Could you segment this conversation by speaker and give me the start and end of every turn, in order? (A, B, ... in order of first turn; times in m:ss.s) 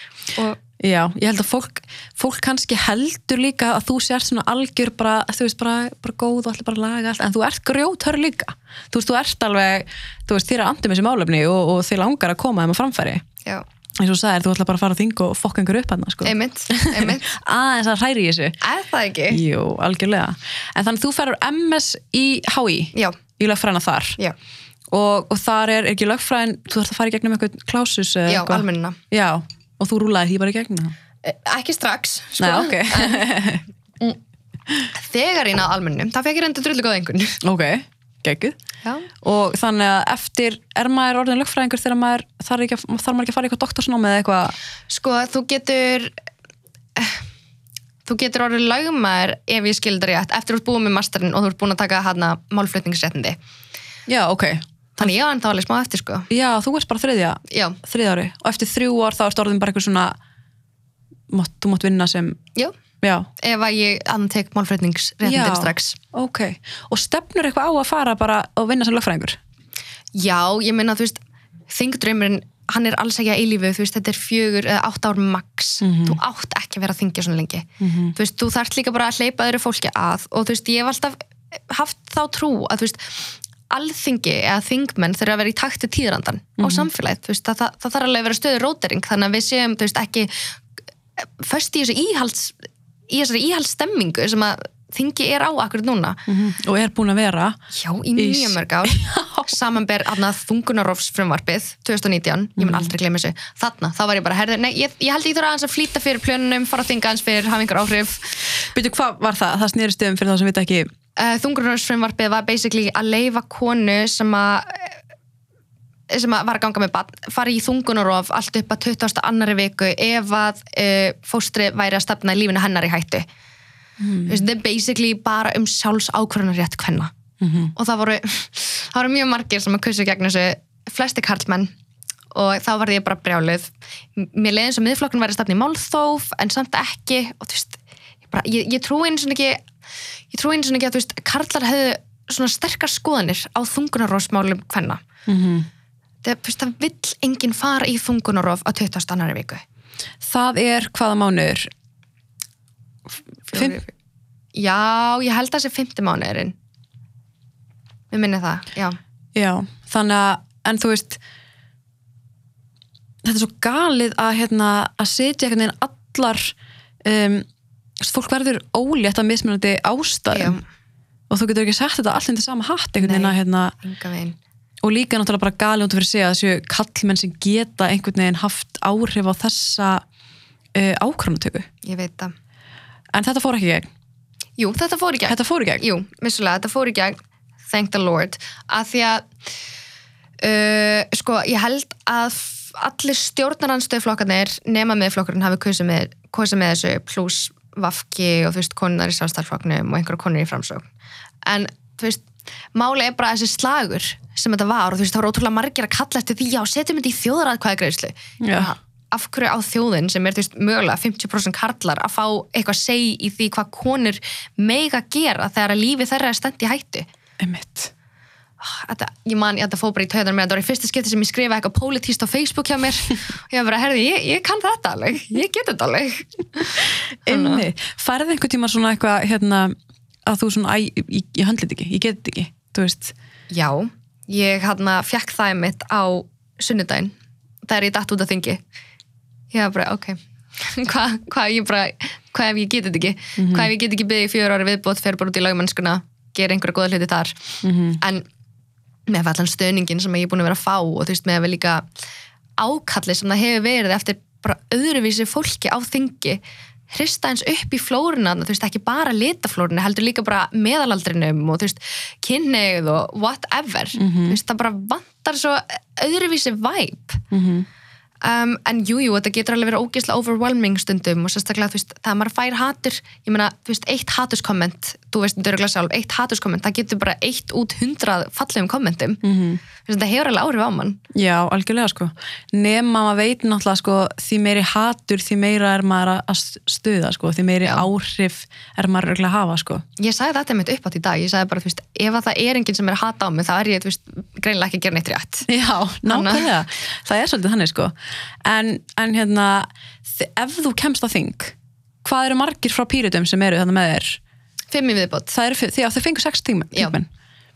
0:00.3-0:00.6 A
0:00.8-0:13.2 B
0:14.0-0:18.6 B
0:16.2-0:17.4 A
0:18.6-0:19.4 A
0:19.3-0:24.2 B
0:24.9-0:31.0 B
0:28.3-0:29.0 A
0:31.2-0:33.3 A
0:32.4-0:33.6 B
0:34.9-0:37.4 A
0:37.4-0:38.6 B
0:38.8-0:39.1 A
0:39.2-0:44.6 B
0:44.9-0:46.1 A
0:47.0-0:47.2 A
0:48.1-0:53.4 A
0:54.1-0:55.1 B
0:55.0-0:56.3 A
0:56.3-1:00.2 B
0:57.5-0:57.8 A
1:01.3-1:02.4 B
1:03.0-1:03.3 B
1:03.4-1:06.0 A
1:05.2-1:09.4 B
1:10.2-1:11.2 A
1:11.7-1:30.6 A
1:15.8-1:16.2 B
1:17.8-1:18.1 B
1:26.6-1:26.9 B
1:31.2-1:32.6 A
1:33.1-1:36.2 A
1:36.3-1:37.6 B
1:37.7-1:48.7 A
1:38.2-1:39.6 B
1:42.6-1:42.9 B
1:48.7-1:50.9 B
1:51.2-1:55.0 A
1:56.1-2:03.3 A
2:04.0-2:04.4 B
2:04.3-2:07.1 A
2:07.4-2:07.7 B
2:07.8-2:11.7 A
2:12.3-2:19.7 A
2:20.3-2:25.0 A
2:25.3-2:25.7 B
2:26.2-2:29.6 A
2:30.2-2:31.7 B
2:33.5-2:33.9 A
2:33.5-2:33.8 B
2:34.6-2:36.6 A
2:38.1-2:39.0 A
2:39.4-2:41.2 B
2:43.2-2:47.5 B
2:48.0-2:50.6 B
2:50.3-2:50.6 A
2:51.3-2:53.7 B
2:53.0-2:54.4 A
2:54.8-3:00.0 B
3:00.8-3:01.7 B
3:01.8-3:02.3 A
3:03.1-3:03.9 B
3:04.6-3:07.2 A
3:05.3-3:05.8 B
3:07.7-3:09.3 A
3:10.4-3:20.9 A
3:21.4-3:37.1 A
3:28.4-3:28.7 B
3:37.4-3:37.9 B
3:38.6-3:47.6 A
3:47.3-3:49.7 B
3:50.2-3:53.1 B
3:53.5-3:57.2 A
3:57.7-3:58.6 A
3:59.5-4:07.4 A
4:03.4-4:03.7 B
4:07.6-4:08.0 B
4:08.0-4:08.2 A
4:09.1-4:11.9 A
4:12.6-4:27.2 A
4:24.0-4:24.4 B
4:27.3-4:27.7 B
4:28.2-4:39.2 A
4:39.2-4:39.6 B
4:39.8-4:41.0 A
4:41.1-4:49.8 B
4:50.0-4:55.5 A
4:55.5-5:04.2 B
4:56.1-4:56.5 A
5:04.7-5:05.3 A
5:05.3-5:07.1 B